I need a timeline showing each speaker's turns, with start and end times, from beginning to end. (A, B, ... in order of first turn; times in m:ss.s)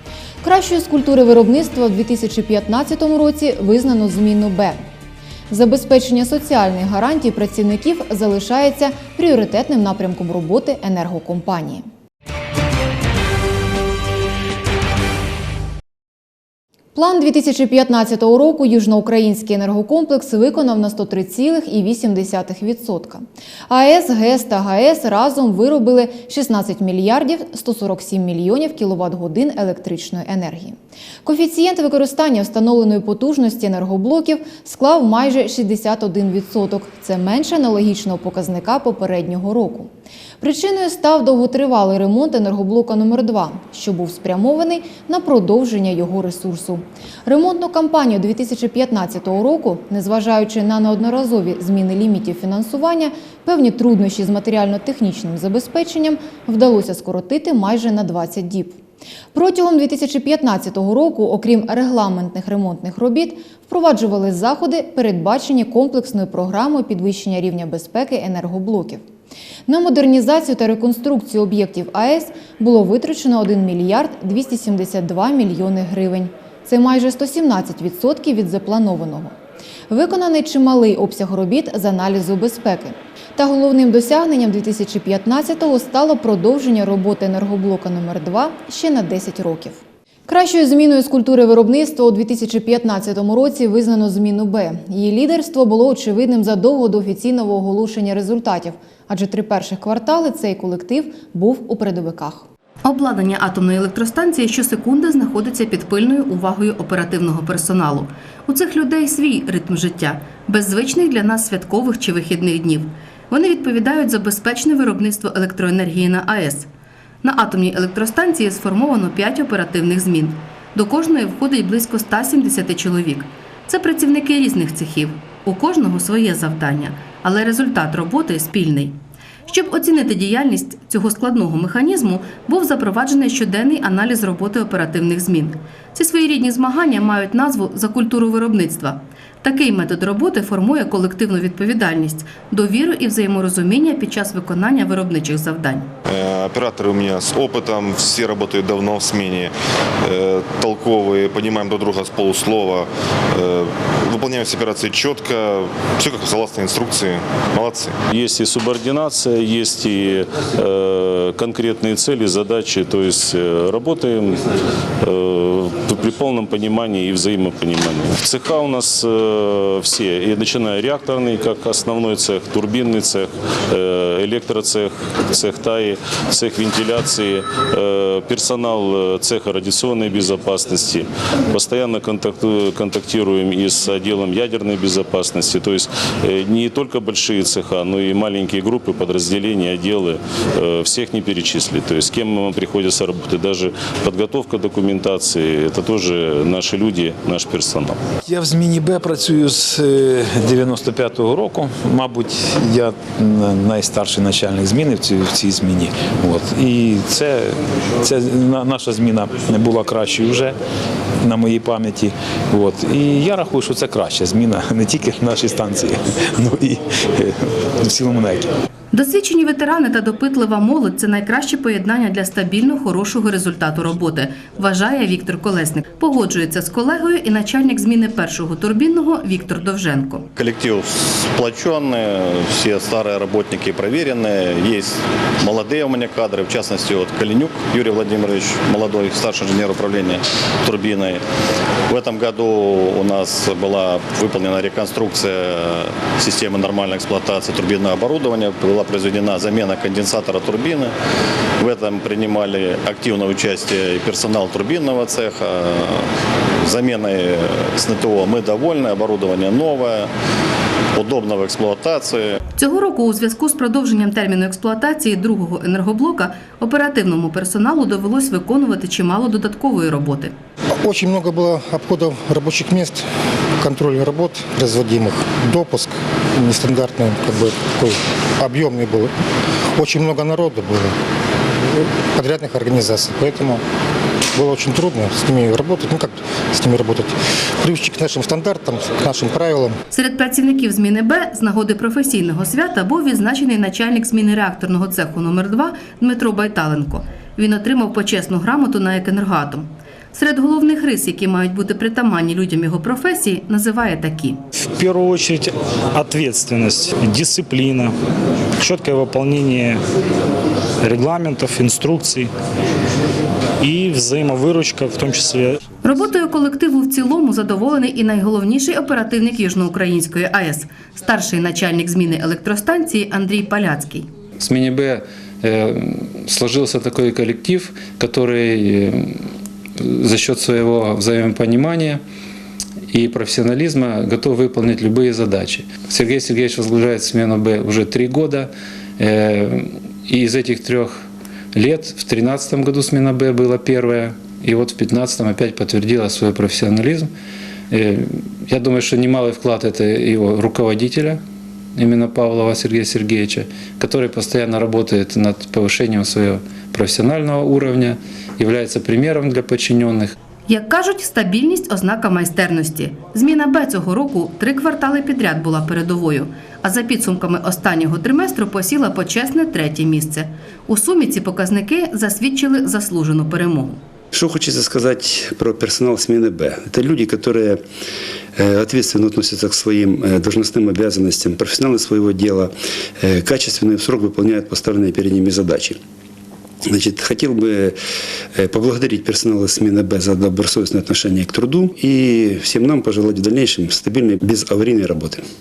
0:00.4-0:04.8 A
0:05.5-0:11.9 A
0:17.0-0:58.8 A
0:59.3-1:09.0 A
1:09.7-1:19.4 A
1:19.9-1:42.5 A
1:42.8-1:56.7 B
1:57.2-2:25.9 B
2:26.1-2:38.0 C
2:38.1-2:44.5 D
2:45.0-3:18.0 D
3:18.2-3:30.6 E
3:31.2-3:38.5 E
3:38.9-3:50.3 B
3:50.4-4:01.2 F
4:01.9-4:10.9 F
4:11.6-4:16.1 F
4:16.6-4:20.1 F
4:21.0-4:22.4 F
4:22.6-4:30.3 B
4:30.8-4:33.0 G
4:33.6-4:39.1 G
4:39.8-4:41.0 G
4:42.1-4:43.6 G
4:44.4-4:49.8 G
4:49.9-5:04.4 B
5:04.6-5:08.0 H
5:08.6-5:09.8 H
5:10.8-5:12.3 H
5:13.6-5:15.6 H
5:15.8-5:24.1 B
5:24.4-5:32.0 I
5:32.9-5:47.1 I
5:47.7-5:51.2 I
5:51.8-6:00.1 I
6:00.5-6:13.8 B
6:14.1-6:17.6 J
6:18.4-6:25.8 J
6:26.7-6:27.8 J
6:28.4-6:35.2 J